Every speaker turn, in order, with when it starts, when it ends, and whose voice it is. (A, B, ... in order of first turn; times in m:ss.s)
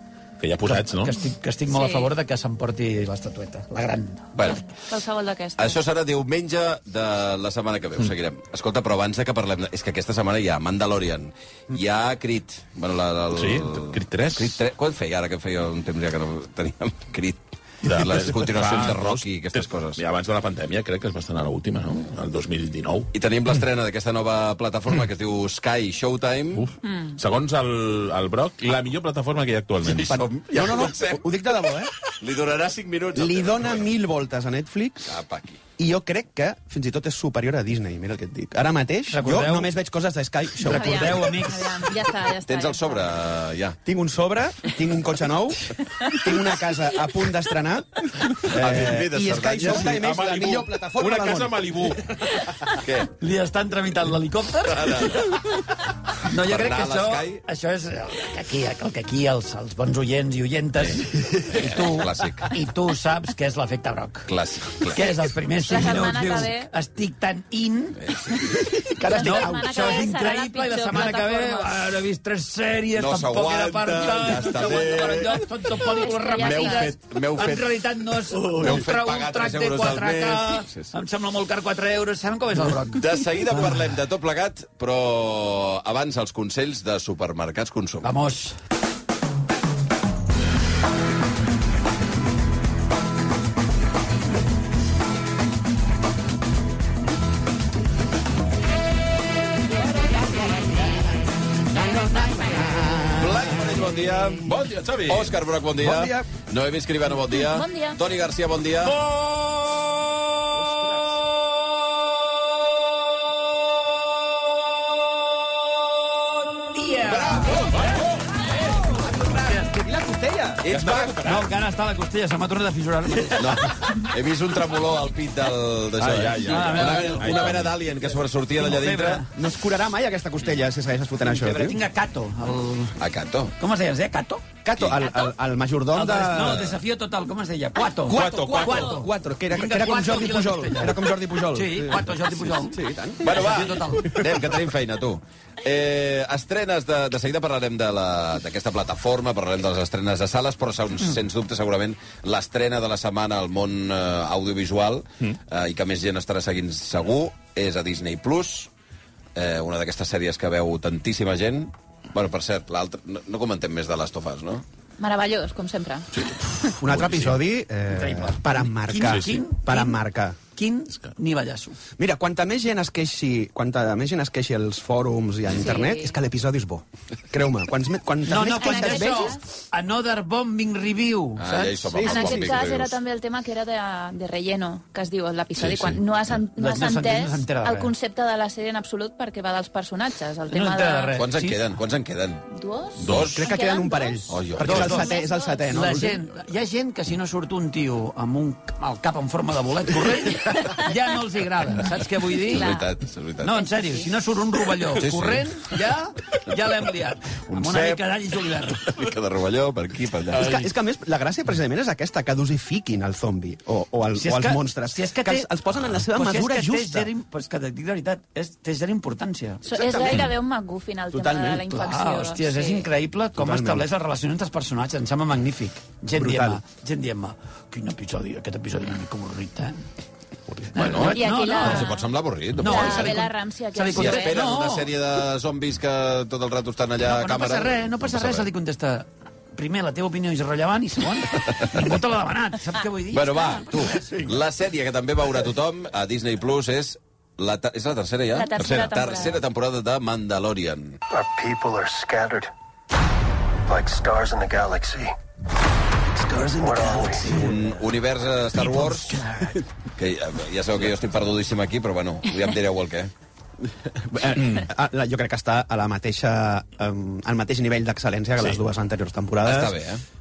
0:00.4-0:01.2 A
0:00.6-0:04.4 B
0:01.7-0:02.1 C
0:04.3-0:04.6 D
0:04.4-0:05.7 C
0:05.6-0:20.0 D
0:13.3-0:14.6 A
0:17.8-0:23.1 A
0:23.1-0:26.7 D
0:26.6-0:30.3 A
0:29.8-0:31.4 D
0:30.0-0:31.9 E
0:32.1-0:33.9 D
0:33.2-0:35.1 E
0:35.0-0:35.6 D
0:35.8-0:41.4 E
0:39.1-0:39.7 B
0:40.6-0:41.9 B
0:40.7-0:43.1 C
0:42.4-0:43.8 D
0:43.8-0:51.8 E
0:48.4-0:50.1 D
0:49.6-0:52.1 A
0:52.7-0:53.1 D
0:53.2-0:55.2 B
0:54.6-0:55.7 D
0:56.2-1:08.5 B
0:56.3-0:57.4 D
1:00.8-1:02.5 D
1:04.3-1:05.2 D
1:05.6-1:06.7 C
1:08.0-1:08.4 D
1:08.9-1:09.8 E
1:09.0-1:23.1 B
1:09.1-1:11.8 C
1:12.9-1:15.4 D
1:15.8-1:16.9 C
1:16.4-1:20.9 D
1:22.9-1:28.1 D
1:28.0-1:28.5 B
1:41.7-1:44.4 E
1:43.1-1:44.5 D
1:44.4-1:45.4 A
1:45.0-1:49.0 D
1:45.8-1:46.3 E
1:47.3-1:48.0 C
1:56.6-1:57.6 B
1:57.0-1:57.9 D
1:57.7-1:58.2 A
1:58.9-2:00.7 E
2:00.6-2:01.2 D
2:00.7-2:01.5 A
2:01.2-2:03.7 B
2:03.3-2:09.2 D
2:06.0-2:07.8 A
2:06.4-2:07.5 B
2:08.6-2:09.3 B
2:09.3-2:11.8 E
2:11.2-2:13.0 B
2:13.0-2:13.5 D
2:13.6-2:14.4 B
2:14.6-2:16.8 E
2:14.8-2:15.0 D
2:15.9-2:24.2 B
2:18.1-2:24.5 E
2:18.1-2:19.0 A
2:23.2-2:38.7 D
2:39.3-2:44.6 D
2:45.0-2:46.2 C
2:46.5-2:50.4 E
2:46.8-2:47.4 A
2:47.9-2:51.8 B
2:49.0-2:49.3 A
2:52.0-2:59.4 E
2:55.5-2:56.2 C
2:58.3-3:02.0 B
2:58.4-2:59.4 C
3:01.4-3:03.0 D
3:01.9-3:02.6 E
3:02.0-3:11.2 C
3:05.6-3:06.0 A
3:06.6-3:07.9 B
3:10.5-3:11.6 B
3:11.2-3:12.4 D
3:12.5-3:16.0 C
3:13.0-3:13.4 A
3:13.0-3:13.4 D
3:13.1-3:16.2 E
3:14.3-3:15.0 D
3:14.6-3:15.2 B
3:15.7-3:22.7 B
3:22.5-3:23.7 D
3:22.5-3:22.9 C
3:23.4-3:28.9 B
3:24.8-3:25.7 D
3:27.5-3:30.6 D
3:30.4-3:37.1 E
3:34.2-3:39.6 B
3:39.6-3:42.9 C
3:39.7-3:40.3 E
3:41.1-3:41.9 E
3:41.7-3:49.8 B
3:43.4-3:43.9 E
3:46.1-3:46.6 E
3:50.7-3:51.9 B
3:50.7-3:53.2 D
3:51.0-3:52.0 C
3:52.6-3:54.9 B
3:52.6-3:54.5 C
3:53.9-3:58.5 D
3:57.0-4:04.1 B
4:01.5-4:01.8 D
4:03.1-4:11.0 D
4:08.3-4:09.4 C
4:11.1-4:12.5 F
4:13.7-4:15.1 F
4:16.1-4:17.7 E
4:16.6-4:17.3 F
4:17.2-4:19.2 D
4:18.6-4:19.6 E
4:20.0-4:23.1 D
4:23.8-4:29.8 E
4:29.4-4:30.0 D